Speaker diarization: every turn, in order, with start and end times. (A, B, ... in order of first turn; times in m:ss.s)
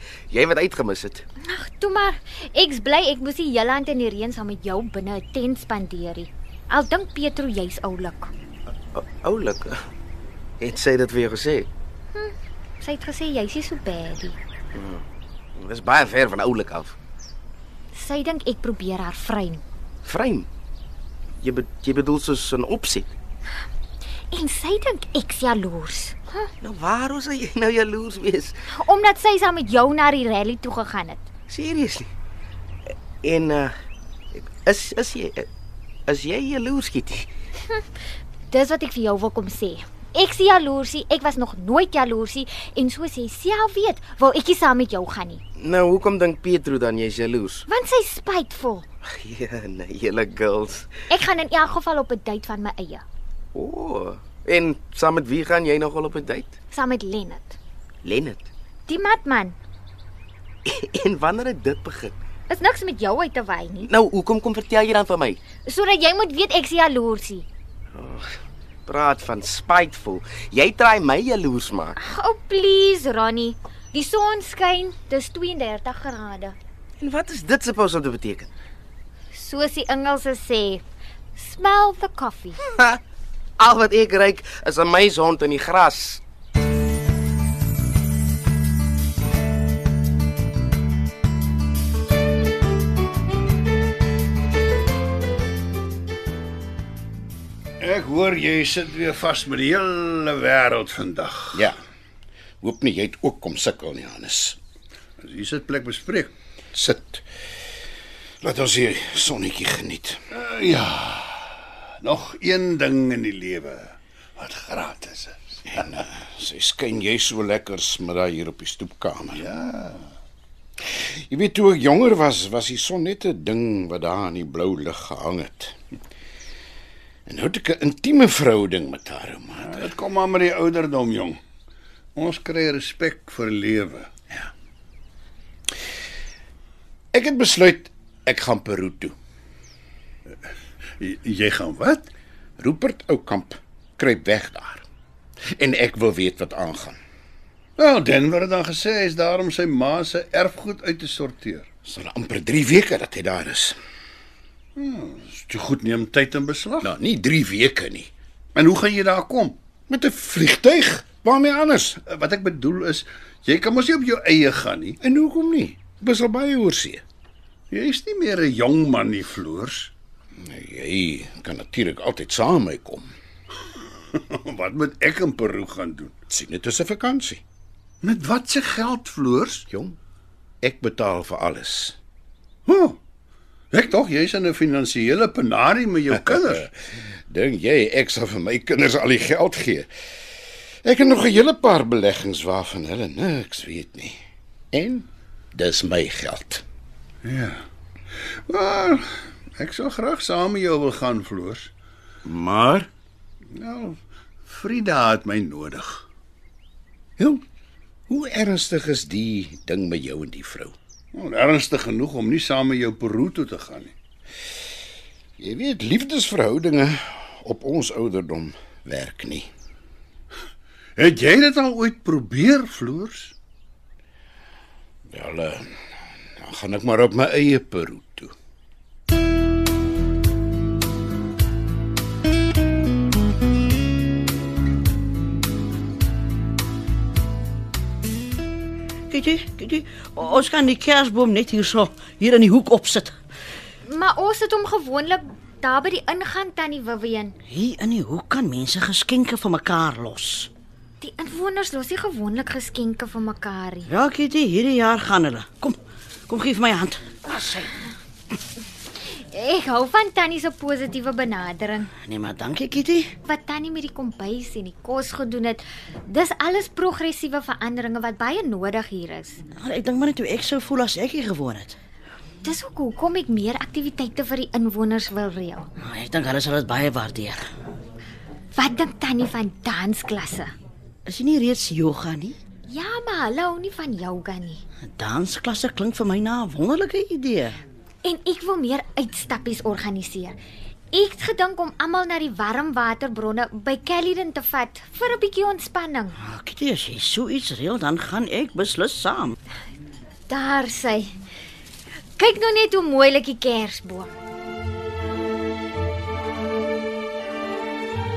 0:00.3-0:01.2 A
0:01.4-0:08.3 B
0:08.9-0:09.8 A
0:10.6-0:11.7 A
0:12.1-0:14.4 B
0:14.7-0:15.0 A
0:15.6-0:16.9 A
0:17.9-0:19.6 B
0:20.0-0:20.5 A
0:21.4-0:23.1 A
0:24.3-0:26.5 B
0:26.6-0:28.5 A
0:28.7-0:31.2 B
0:31.5-0:32.1 A
0:33.2-0:33.7 A
0:34.6-0:35.5 A
0:36.1-0:37.2 A
0:38.5-0:45.4 B
0:45.6-0:47.6 A
0:47.7-0:48.8 B
0:49.2-0:50.9 A
0:51.1-0:53.0 B
0:53.5-0:56.5 A
0:56.7-0:57.6 B
0:58.0-0:58.5 A
0:58.9-0:59.6 B
1:00.7-1:02.1 A
1:02.5-1:03.9 B
1:03.8-1:05.4 A
1:05.6-1:07.4 B
1:08.0-1:08.3 A
1:08.8-1:12.0 A
1:12.0-1:16.6 B
1:17.0-1:18.5 A
1:19.3-1:20.8 B
1:21.3-1:22.6 B
1:22.7-1:23.0 A
1:23.6-1:26.2 A
1:37.8-1:41.6 C
1:42.6-1:44.6 D
1:45.2-1:46.3 C
1:46.7-1:47.2 D
1:48.4-1:50.2 D
1:50.3-1:55.4 C
1:55.7-1:59.4 D
1:59.3-2:00.0 C
2:00.8-2:05.8 D
2:07.3-2:09.9 D
2:09.6-2:11.4 C
2:12.1-2:14.1 C
2:17.1-2:19.1 D
2:21.0-2:22.1 C
2:22.6-2:24.8 D
2:25.5-2:27.0 D
2:27.8-2:31.6 C
2:31.8-2:33.8 D
2:34.8-2:36.9 C
2:36.8-2:38.1 D
2:38.5-2:39.6 C
2:39.9-2:42.0 D
2:42.0-2:45.0 C
2:45.0-2:47.0 D
2:47.7-2:49.9 C
2:50.4-2:53.1 D
2:54.1-2:56.1 C
2:56.3-2:57.4 D
2:58.0-2:59.6 C
2:59.7-3:00.0 D
3:00.6-3:02.0 D
3:02.7-3:03.0 C
3:03.7-3:06.7 C
3:06.2-3:06.7 D
3:07.3-3:09.9 D
3:10.8-3:14.2 D
3:14.7-3:16.6 D
3:17.2-3:17.6 C
3:18.5-3:21.7 C
3:22.2-3:22.9 D
3:23.5-3:26.0 C
3:28.1-3:30.7 D
3:31.1-3:33.9 C
3:35.4-3:39.5 D
3:41.0-3:43.3 C
3:45.1-3:45.7 D
3:46.4-3:48.3 D
3:59.1-4:03.1 E
4:03.8-4:07.3 B
4:07.5-4:10.5 E
4:11.0-4:13.9 B
4:13.9-4:15.8 E
4:16.3-4:17.8 E
4:19.0-4:21.9 B
4:22.0-4:23.1 E
4:23.2-4:29.4 B
4:29.6-4:31.8 E
4:32.4-4:35.7 B
4:35.8-4:37.4 E
4:38.5-4:40.5 B
4:41.1-4:42.4 E
4:42.7-4:44.6 B
4:44.9-4:47.6 E
4:48.0-4:50.4 B
4:50.9-4:56.2 B
4:56.2-4:59.4 E
5:00.3-5:01.1 B
5:02.2-5:04.1 B